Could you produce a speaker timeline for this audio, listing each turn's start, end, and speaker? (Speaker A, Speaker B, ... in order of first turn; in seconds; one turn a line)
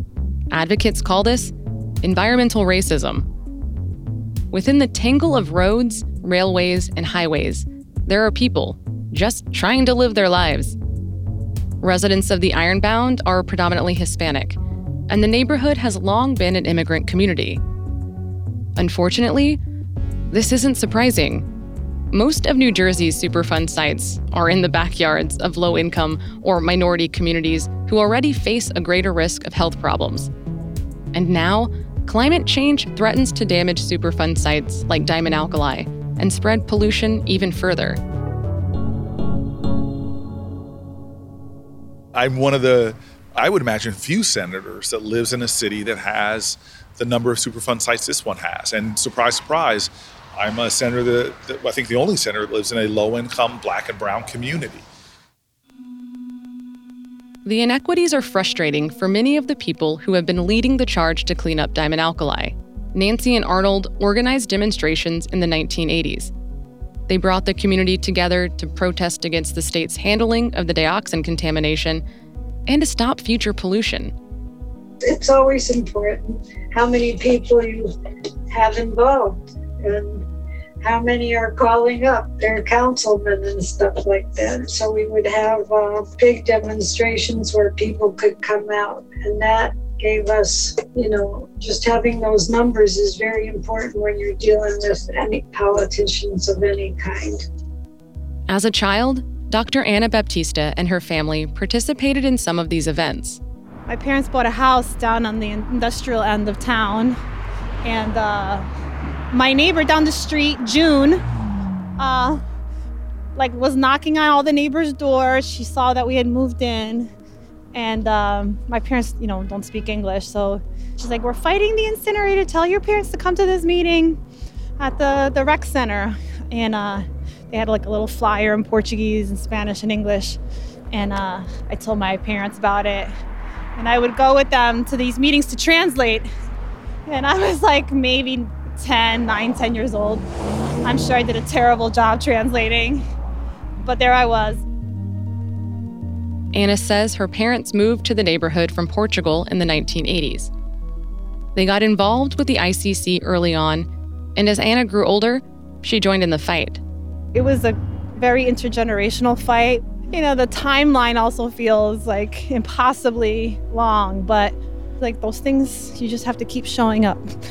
Speaker A: 0.5-3.3
Speaker A: 4.5-10.8
Speaker A: 11.8-14.6
Speaker A: 15.1-17.6
Speaker A: 18.8-19.6
Speaker A: 20.3-21.5
Speaker A: 22.1-30.3
Speaker A: 31.1-38.0
Speaker B: 42.1-54.9
Speaker A: 57.5-66.3
Speaker A: 67.1-72.0
Speaker A: 72.7-74.1
Speaker C: 75.0-77.9
Speaker C: 78.5-80.3
Speaker C: 80.8-97.5
Speaker A: 98.5-103.4
Speaker D: 103.9-107.2
Speaker D: 107.8-108.7
Speaker D: 109.3-111.2
Speaker D: 112.0-112.4
Speaker D: 113.3-117.1
Speaker D: 117.7-124.2
Speaker D: 124.8-130.4
Speaker D: 130.9-133.1
Speaker D: 133.8-136.3
Speaker D: 137.1-140.2
Speaker D: 140.8-143.1
Speaker D: 143.8-144.6
Speaker A: 146.5-150.5
Speaker A: 151.6-156.8
Speaker D: 157.3-167.2